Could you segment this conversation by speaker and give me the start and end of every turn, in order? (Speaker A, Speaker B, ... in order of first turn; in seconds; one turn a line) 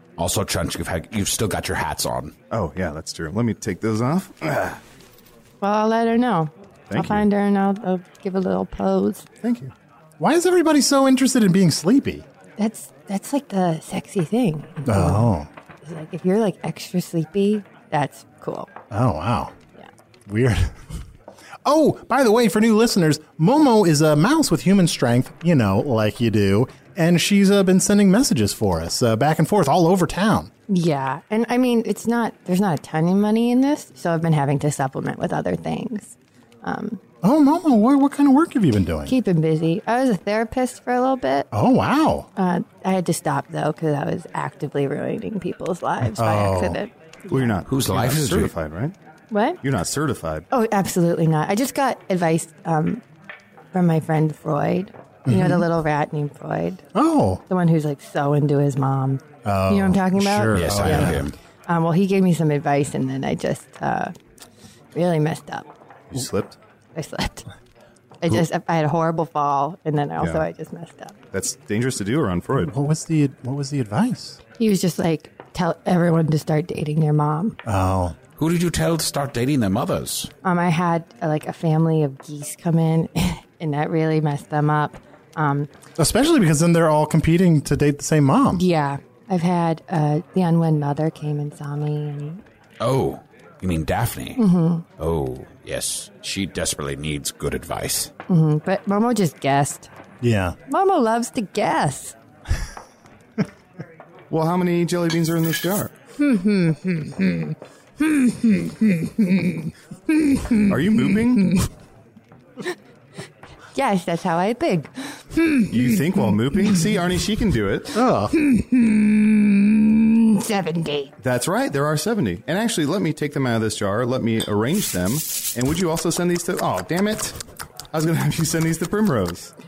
Speaker A: 0.2-2.3
Speaker B: 2.5-4.8
Speaker C: 5.6-9.2
Speaker B: 6.9-7.3
Speaker B: 9.4-9.7
Speaker D: 10.2-12.2
Speaker C: 12.6-15.3
Speaker D: 14.8-15.5
Speaker C: 15.8-18.7
Speaker D: 18.9-19.5
Speaker D: 20.3-20.8
Speaker D: 21.6-30.5
Speaker C: 30.7-37.0
Speaker D: 37.2-39.1
Speaker C: 39.1-41.5
Speaker D: 41.5-42.3
Speaker C: 42.4-47.6
Speaker D: 46.0-46.8
Speaker B: 47.3-48.9
Speaker A: 47.7-48.5
Speaker C: 49.3-49.6
Speaker B: 49.6-50.5
Speaker C: 50.5-53.0
Speaker C: 53.7-56.8
Speaker D: 55.3-55.6
Speaker D: 56.9-57.4
Speaker C: 57.5-64.1
Speaker D: 59.4-61.3
Speaker A: 60.5-61.3
Speaker C: 64.9-65.7
Speaker B: 66.1-66.6
Speaker C: 67.0-67.4
Speaker C: 68.2-71.1
Speaker B: 70.2-70.4
Speaker B: 71.3-72.7
Speaker D: 72.5-74.4
Speaker C: 74.6-77.5
Speaker D: 77.6-78.1
Speaker A: 78.4-80.3
Speaker C: 80.4-85.7
Speaker D: 86.0-88.6
Speaker C: 88.5-92.4
Speaker A: 92.8-94.4
Speaker C: 94.4-94.8
Speaker A: 95.0-98.1
Speaker C: 98.3-99.9
Speaker D: 100.2-100.6
Speaker C: 100.7-102.1
Speaker B: 104.3-105.9
Speaker C: 106.2-109.5
Speaker C: 110.1-110.7
Speaker B: 110.7-111.5
Speaker C: 111.4-111.6
Speaker C: 113.7-115.7
Speaker B: 115.7-118.0
Speaker D: 117.9-118.3
Speaker C: 118.3-121.1
Speaker B: 121.2-127.3
Speaker B: 127.9-129.5